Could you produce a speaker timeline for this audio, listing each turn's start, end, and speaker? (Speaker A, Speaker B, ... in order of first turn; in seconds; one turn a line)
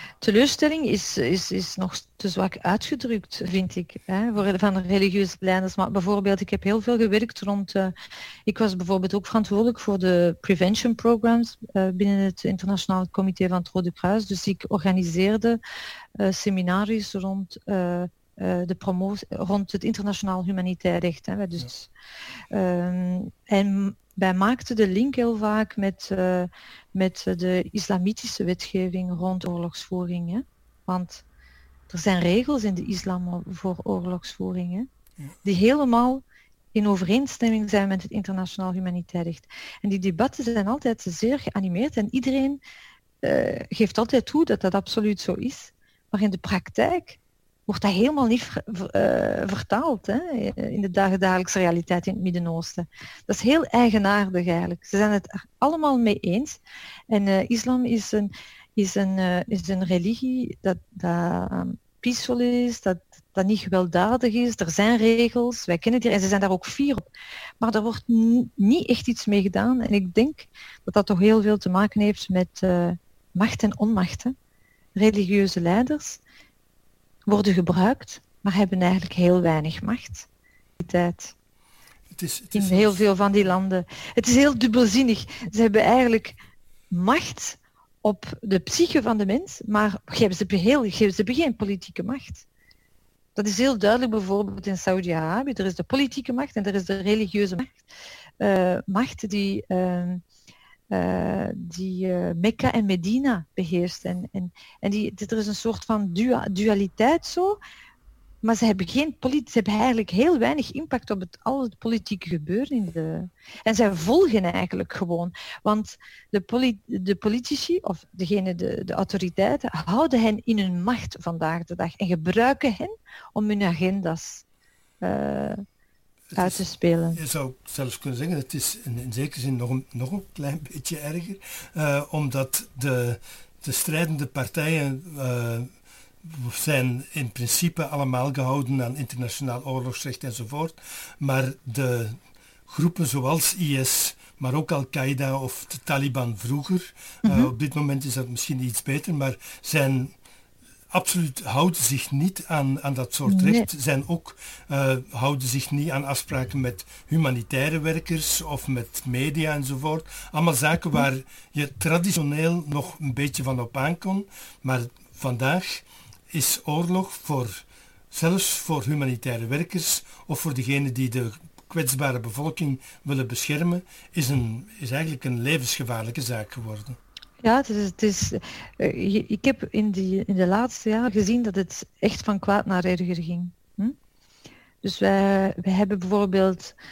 Speaker A: 0.2-7.9
Speaker A: 8.5-15.6
Speaker A: 16.2-21.9
Speaker A: 22.5-31.2
Speaker A: 31.9-34.9
Speaker A: 35.4-36.2
Speaker A: 36.7-42.6
Speaker A: 43.2-56.6
Speaker A: 57.1-67.1
Speaker A: 67.6-74.3
Speaker A: 75.0-76.2
Speaker A: 77.3-80.3
Speaker A: 80.8-81.3
Speaker B: 82.1-83.0
Speaker A: 82.5-86.4
Speaker A: 86.9-92.5
Speaker A: 93.4-97.8
Speaker A: 98.4-100.2
Speaker A: 100.9-107.6
Speaker A: 108.4-124.5
Speaker A: 125.0-125.6
Speaker B: 126.3-135.7
Speaker A: 126.4-127.2
Speaker B: 136.2-150.1
Speaker A: 147.2-147.5
Speaker B: 150.9-177.0
Speaker A: 153.3-153.7
Speaker A: 177.4-184.0
Speaker A: 184.8-186.8